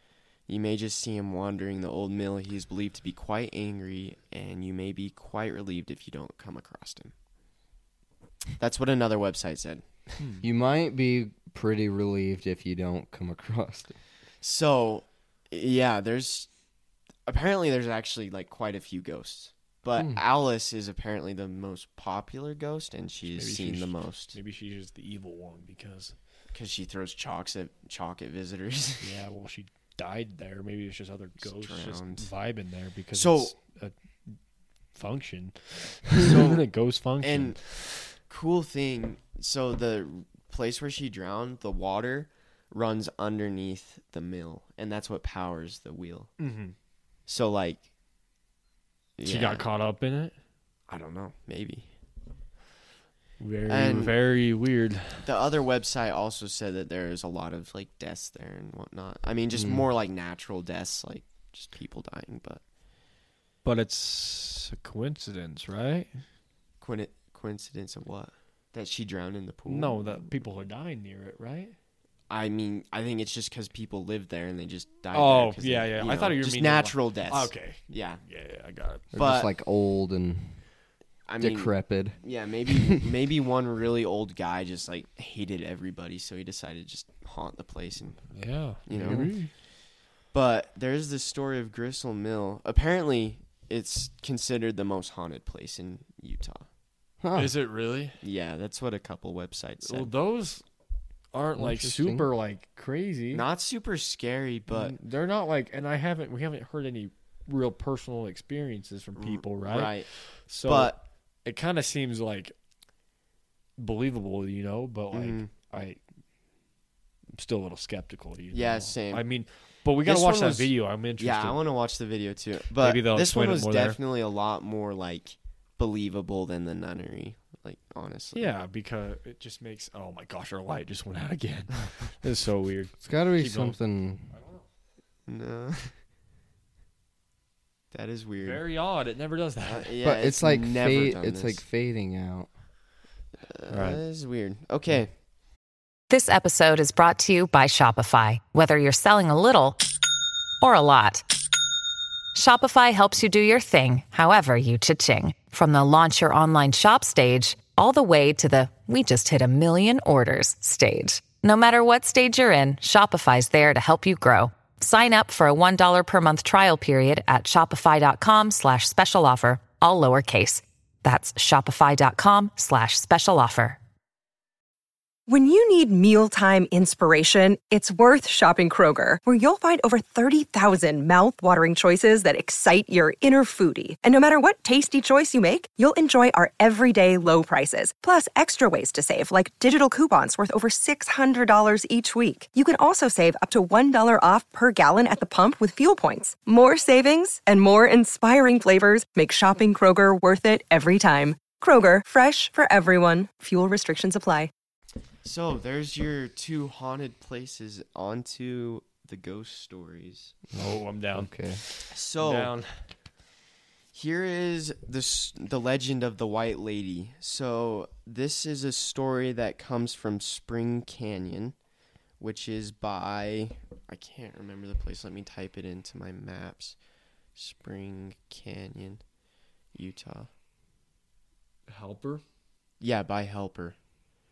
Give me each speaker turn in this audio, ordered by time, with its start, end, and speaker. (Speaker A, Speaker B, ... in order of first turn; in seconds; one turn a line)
Speaker A: 0.5-7.1
Speaker A: 8.6-9.9
Speaker B: 10.4-13.9
Speaker A: 14.4-16.5
Speaker A: 17.3-24.4
Speaker C: 23.3-26.1
Speaker A: 26.5-29.1
Speaker C: 29.0-34.4
Speaker A: 31.4-32.3
Speaker A: 33.1-33.5
Speaker C: 35.0-37.7
Speaker A: 36.2-36.6
Speaker A: 37.2-46.3
Speaker C: 46.4-46.8
Speaker A: 47.3-47.8
Speaker A: 49.2-49.6
Speaker C: 49.2-50.3
Speaker A: 50.9-51.9
Speaker C: 53.4-55.3
Speaker A: 53.7-54.2
Speaker A: 55.2-62.6
Speaker B: 59.5-59.9
Speaker C: 63.6-66.2
Speaker A: 66.8-70.3
Speaker C: 69.7-71.8
Speaker A: 72.3-78.2
Speaker C: 75.1-79.1
Speaker B: 79.1-80.6
Speaker A: 79.2-79.5
Speaker A: 81.3-88.3
Speaker B: 81.4-83.0
Speaker C: 88.3-89.5
Speaker A: 88.9-89.4
Speaker B: 89.0-89.4
Speaker A: 90.3-96.7
Speaker B: 97.2-97.5
Speaker C: 97.3-98.2
Speaker A: 98.2-100.1
Speaker C: 99.8-100.6
Speaker C: 101.3-103.5
Speaker B: 101.6-102.3
Speaker A: 103.3-105.0
Speaker C: 104.7-112.5
Speaker A: 109.2-110.1
Speaker A: 110.6-111.0
Speaker C: 113.8-116.0
Speaker A: 115.1-115.5
Speaker C: 117.3-121.6
Speaker A: 118.5-119.2
Speaker A: 120.0-128.5
Speaker C: 122.8-124.0
Speaker C: 128.3-133.8
Speaker B: 133.0-134.3
Speaker C: 134.3-134.6
Speaker A: 135.3-135.9
Speaker A: 137.9-138.6
Speaker C: 138.4-139.9
Speaker A: 139.7-141.6
Speaker B: 140.0-142.5
Speaker A: 143.4-145.1
Speaker C: 143.7-144.0
Speaker D: 146.1-149.8
Speaker D: 150.6-151.2
Speaker D: 152.3-173.8
Speaker E: 175.3-204.5
Speaker A: 205.2-210.4
Speaker B: 210.5-211.6
Speaker C: 210.6-212.8
Speaker A: 211.9-212.5
Speaker A: 213.9-221.6
Speaker A: 222.2-226.8
Speaker A: 227.4-229.0
Speaker A: 229.8-230.3
Speaker C: 231.7-232.2
Speaker A: 232.8-233.8